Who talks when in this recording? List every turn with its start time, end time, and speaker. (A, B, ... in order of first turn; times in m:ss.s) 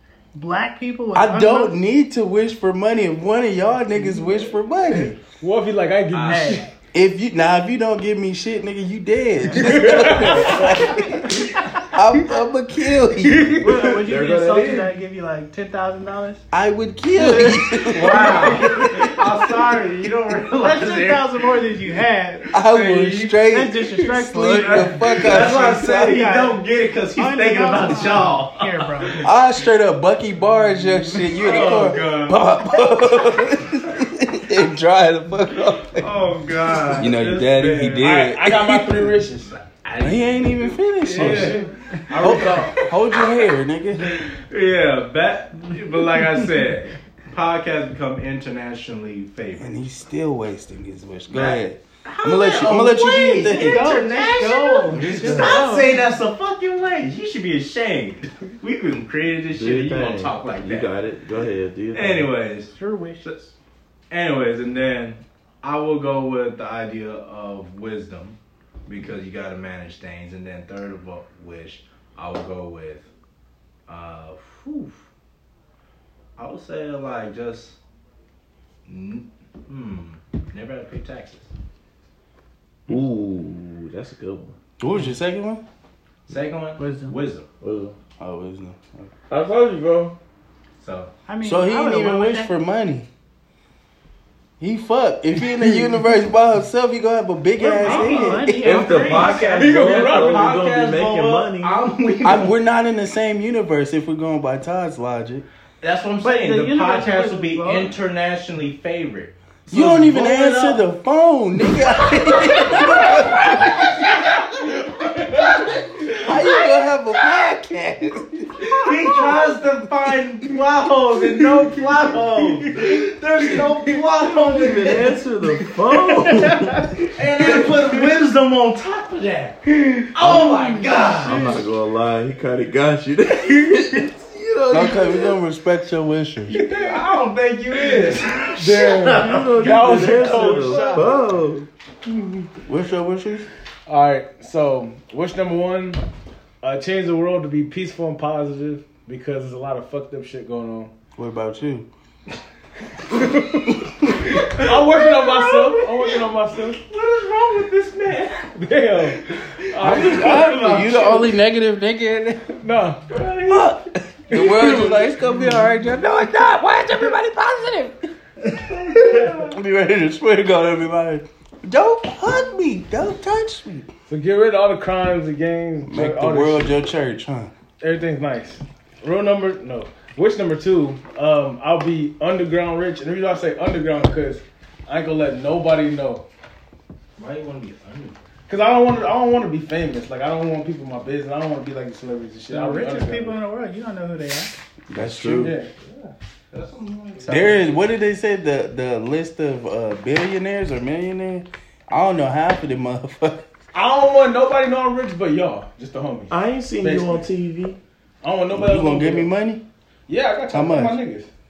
0:00.4-0:01.8 A
0:01.1-0:05.2 B
0:05.2-0:06.7 C
0:06.1-0:06.6 D
0:06.2-0:06.7 A
0:06.9-0:13.7 B
0:09.6-0:10.8 C
0:10.6-0:11.0 A
0:13.2-0:13.9 C
0:13.6-0:16.4 A
0:13.9-0:14.9 E
0:16.5-0:19.1 B
0:17.1-0:19.5 A
0:17.9-0:21.5 D
0:20.6-0:22.6 A
0:22.5-0:26.2 B
0:22.7-0:23.4 D
0:23.5-0:26.6 A
0:25.0-0:29.1 D
0:27.2-0:29.3 A
0:29.2-0:36.1 B
0:31.2-0:32.5 D
0:35.9-0:38.2 D
0:36.9-0:39.2 B
0:38.0-0:39.6 C
0:39.5-0:43.3 D
0:40.0-0:41.6 B
0:41.0-0:42.9 C
0:42.2-0:44.2 B
0:44.0-0:49.8 D
0:49.6-0:54.0 B
0:51.3-1:00.9 D
0:53.3-0:56.0 A
0:54.9-0:55.6 B
0:59.5-1:02.3 E
1:01.9-1:03.5 D
1:02.7-1:03.3 A
1:04.1-1:13.1 D
1:13.9-1:15.0 D
1:16.4-1:17.8 D
1:18.9-1:21.5 D
1:22.9-1:24.6 E
1:24.8-1:25.6 B
1:26.3-1:27.5 D
1:26.8-1:27.2 A
1:27.6-1:28.0 E
1:28.2-1:29.1 B
1:29.3-1:30.2 E
1:30.8-1:31.1 D
1:31.3-1:32.5 A
1:31.4-1:33.1 B
1:34.6-1:39.0 B
1:37.6-1:39.6 A
1:37.8-1:42.6 D
1:38.2-1:41.8 E
1:39.3-1:40.6 C
1:42.2-1:45.4 B
1:45.8-1:50.8 D
1:46.2-1:48.0 A
1:49.7-1:54.0 B
1:51.9-1:56.7 D
1:56.1-1:59.0 B
1:58.6-2:05.2 D
2:02.6-2:03.0 C
2:04.5-2:07.7 E
2:06.4-2:06.8 A
2:07.1-2:09.6 D
2:10.1-2:11.6 D
2:10.6-2:11.5 A
2:11.2-2:15.4 E
2:14.7-2:16.6 B
2:16.5-2:21.1 D
2:16.5-2:17.1 C
2:18.5-2:21.1 C
2:19.1-2:21.7 E
2:19.6-2:21.1 B
2:20.7-2:21.0 A
2:22.1-2:22.5 C
2:22.7-2:23.5 B
2:23.9-2:26.0 C
2:26.6-2:30.9 C
2:31.2-2:31.9 B
2:33.1-2:33.8 C
2:33.3-2:34.4 B
2:34.3-2:36.8 C
2:34.5-2:35.7 D
2:36.9-2:38.5 D
2:38.5-2:40.8 C
2:39.7-2:41.3 D
2:39.8-2:42.6 B
2:42.6-2:43.1 C
2:43.1-2:43.8 D
2:43.5-2:48.0 B
2:44.3-2:45.1 C
2:44.4-2:44.7 E
2:48.7-2:53.9 B
2:48.9-2:49.4 D
2:54.1-2:56.8 C
2:55.9-2:57.5 B
2:57.8-3:06.2 C
3:07.2-3:08.2 D
3:08.5-3:13.4 C
3:12.5-3:14.5 A
3:14.9-3:15.6 B
3:15.0-3:15.6 E
3:15.3-3:15.7 C
3:15.8-3:17.9 D
3:17.3-3:23.5 B
3:23.7-3:27.3 C
3:26.3-3:27.8 E
3:28.2-3:29.3 C
3:28.5-3:29.6 B
3:30.1-3:31.3 C
3:30.5-3:31.0 B